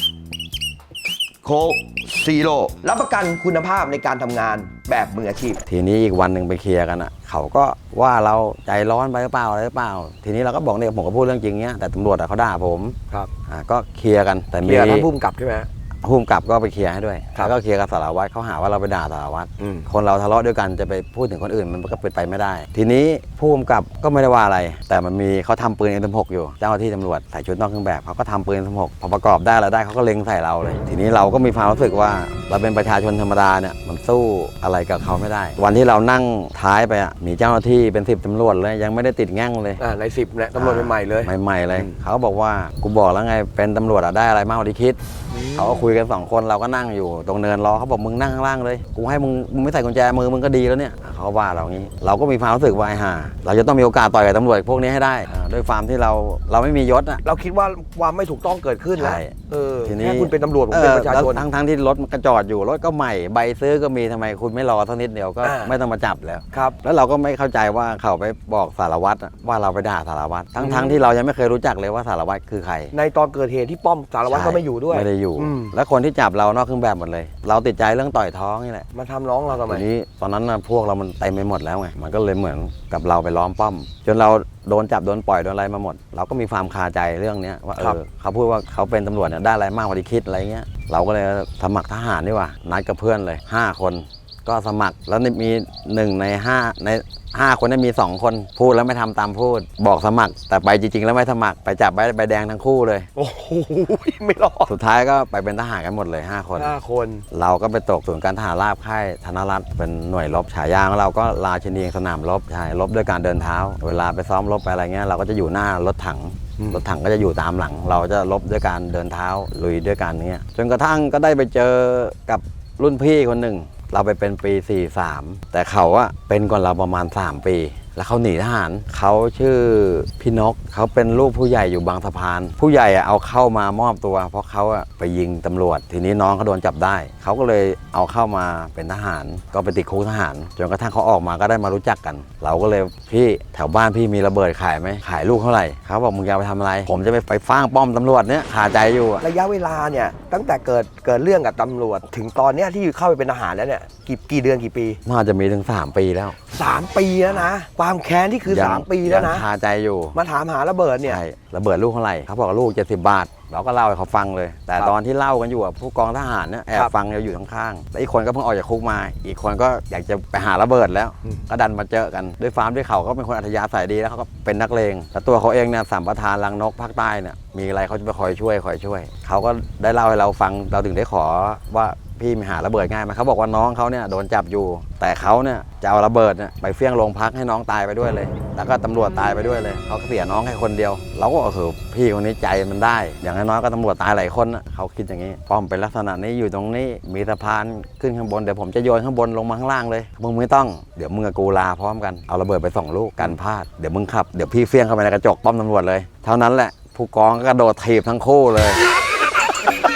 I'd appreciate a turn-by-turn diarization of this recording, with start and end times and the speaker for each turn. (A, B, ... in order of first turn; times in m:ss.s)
0:01.4-0:05.6 A
0:05.7-0:15.1 B
0:14.6-0:15.7 A
0:16.0-0:39.8 B
0:19.6-0:19.9 A
0:39.8-0:42.0 A
0:40.5-0:45.0 B
0:45.3-0:45.9 A
0:45.5-0:57.2 B
0:57.2-1:01.4 A
0:59.0-1:12.9 B
1:05.4-1:05.7 A
1:06.5-1:06.8 A
1:10.6-1:11.0 A
1:12.9-1:15.7 A
1:14.3-1:18.9 B
1:18.9-1:19.8 A
1:19.5-1:43.1 B
1:43.2-1:44.7 A
1:44.7-1:46.7 B
1:46.5-1:47.2 A
1:47.3-2:29.2 B
2:29.2-2:35.0 A
2:35.0-2:36.4 B
2:36.5-2:39.5 A
2:38.5-2:40.2 B
2:40.1-2:41.2 A
2:41.0-3:28.8 B